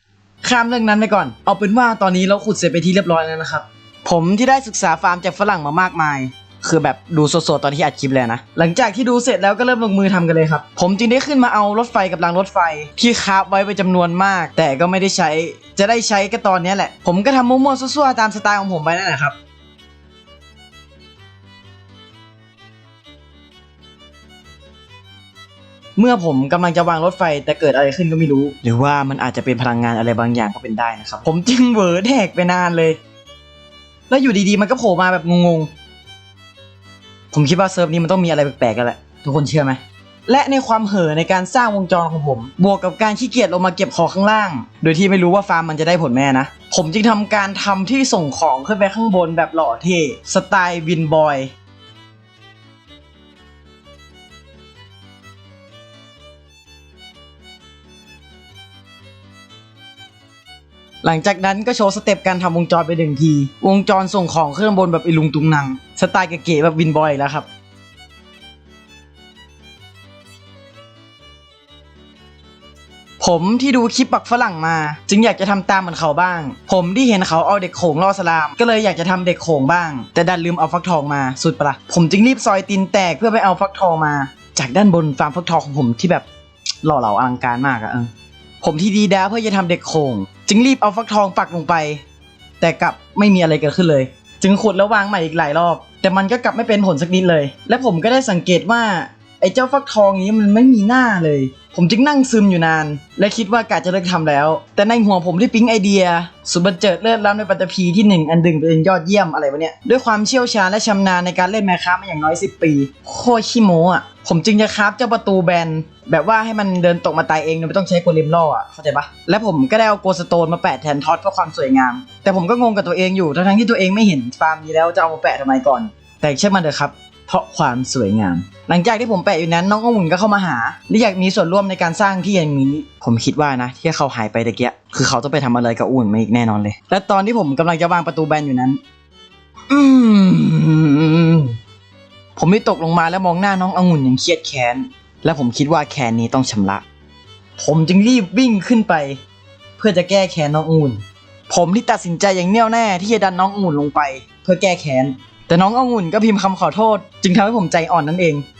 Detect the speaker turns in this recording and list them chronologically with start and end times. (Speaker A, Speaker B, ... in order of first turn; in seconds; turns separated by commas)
Speaker A: 0.4-19.3, Speaker A: 26.0-33.0, Speaker A: 34.1-35.7, Speaker A: 37.3-51.5, Speaker A: 61.0-67.5, Speaker A: 73.2-86.2, Speaker A: 86.8-88.1, Speaker A: 88.6-92.0, Speaker A: 92.6-138.8, Speaker A: 139.7-141.5, Speaker A: 142.3-146.8, Speaker A: 147.6-149.2, Speaker A: 149.8-158.4